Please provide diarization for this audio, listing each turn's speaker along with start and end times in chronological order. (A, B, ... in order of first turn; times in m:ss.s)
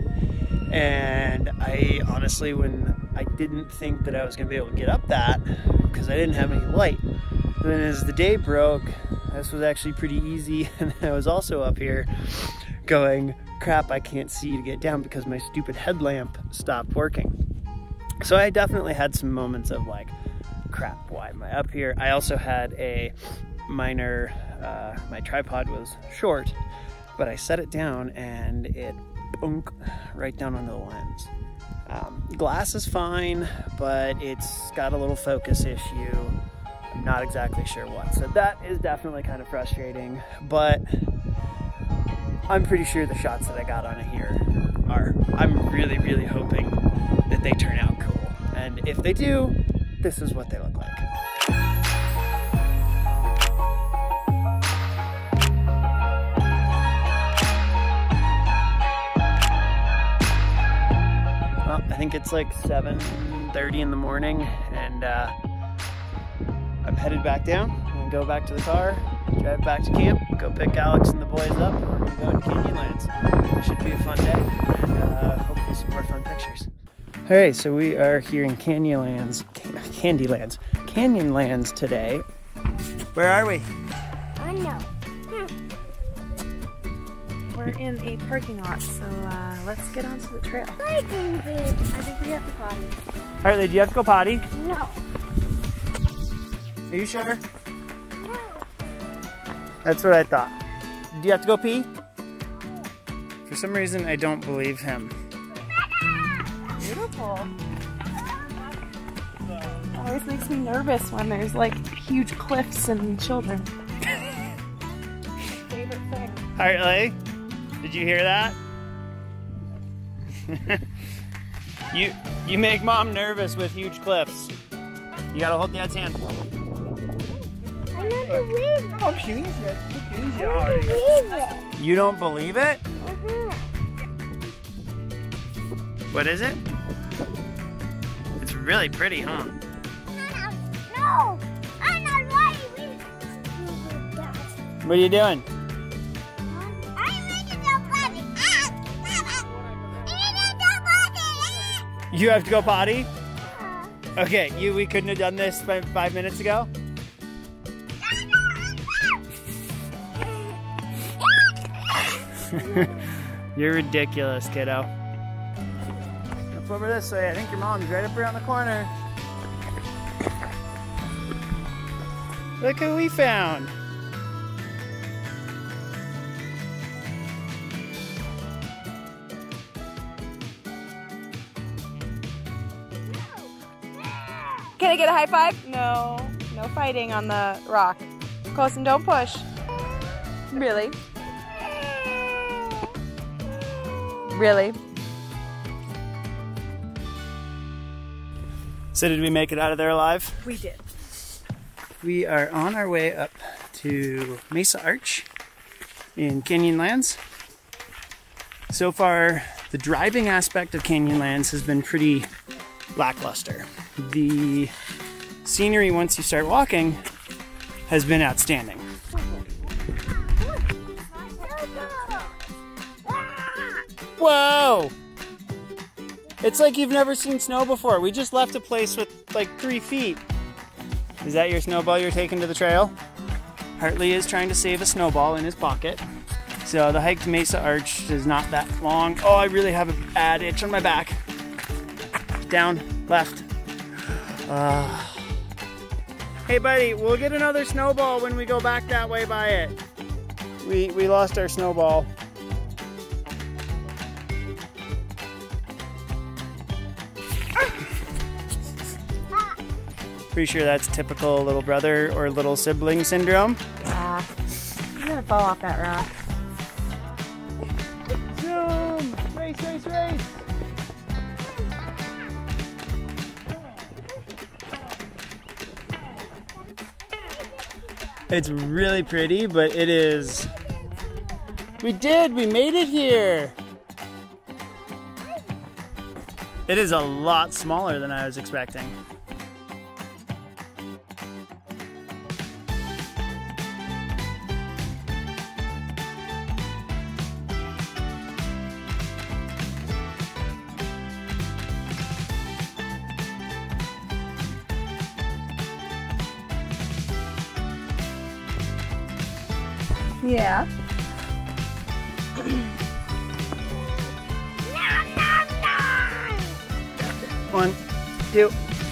0:00.7-0:07.0 A
0:07.6-0:17.3 A
0:18.2-0:20.1 A
0:20.7-0:23.1 A
0:23.7-0:26.6 A
0:27.2-0:31.3 A
0:31.9-0:36.4 A
0:36.9-0:40.8 A
0:42.5-0:51.0 A
1:01.6-1:05.3 A
1:06.8-1:16.7 A
1:17.2-1:22.2 A
1:23.1-1:23.7 A
1:24.4-1:25.5 B
1:27.5-1:30.8 C
1:30.8-1:31.9 B
1:31.9-1:32.9 C
1:33.4-1:34.5 A
1:34.5-1:35.0 B
1:36.9-1:37.4 A
1:38.2-1:38.6 B
1:39.8-1:40.6 A
1:41.1-1:41.9 A
1:43.4-1:45.2 A
1:46.8-1:47.5 C
1:49.9-1:53.7 C
1:55.7-1:56.4 C
1:56.6-1:57.2 A
1:57.8-1:58.6 A
2:00.4-2:00.9 A
2:01.9-2:04.5 A
2:05.3-2:06.2 A
2:07.9-2:09.2 B
2:09.0-2:11.0 A
2:10.4-2:11.6 B
2:11.8-2:12.8 A
2:13.0-2:13.6 B
2:16.1-2:16.6 A
2:18.4-2:19.6 A
2:20.1-2:24.6 B
2:24.8-2:25.4 A
2:26.4-2:31.8 B
2:32.1-2:33.1 A
2:33.4-2:34.0 B
2:34.2-2:36.7 A
2:42.4-2:44.9 A
2:46.5-2:48.9 A
2:52.6-2:53.7 A
3:04.0-3:04.8 B
3:04.8-3:09.5 C
3:10.5-3:11.0 C
3:11.5-3:12.8 B
3:14.3-3:14.8 C
3:18.9-3:20.4 A
3:20.4-3:20.8 C
3:22.0-3:25.3 A
3:26.2-3:27.2 A
3:28.7-3:32.3 A
3:32.9-3:34.7 A
3:35.4-3:37.0 A
3:37.9-3:38.9 A
3:40.2-3:42.4 B
3:43.0-3:43.8 B
3:44.2-3:44.9 A
3:46.4-3:50.2 A
3:51.2-3:52.9 A
3:53.8-3:56.0 A
3:56.6-4:01.2 A
4:02.5-4:03.5 A
4:04.0-4:05.3 A
4:06.5-4:09.8 A
4:10.6-4:12.1 A
4:19.3-4:19.6 B
4:20.3-4:23.6 A
4:23.8-4:24.3 C
4:25.0-4:26.1 C
4:28.3-4:30.4 A
4:37.3-4:38.0 B
4:38.3-4:40.5 A
4:41.8-4:43.6 A
4:46.7-4:49.0 A
5:10.2-5:10.7 C
5:14.8-5:15.9 B
5:17.5-5:17.8 A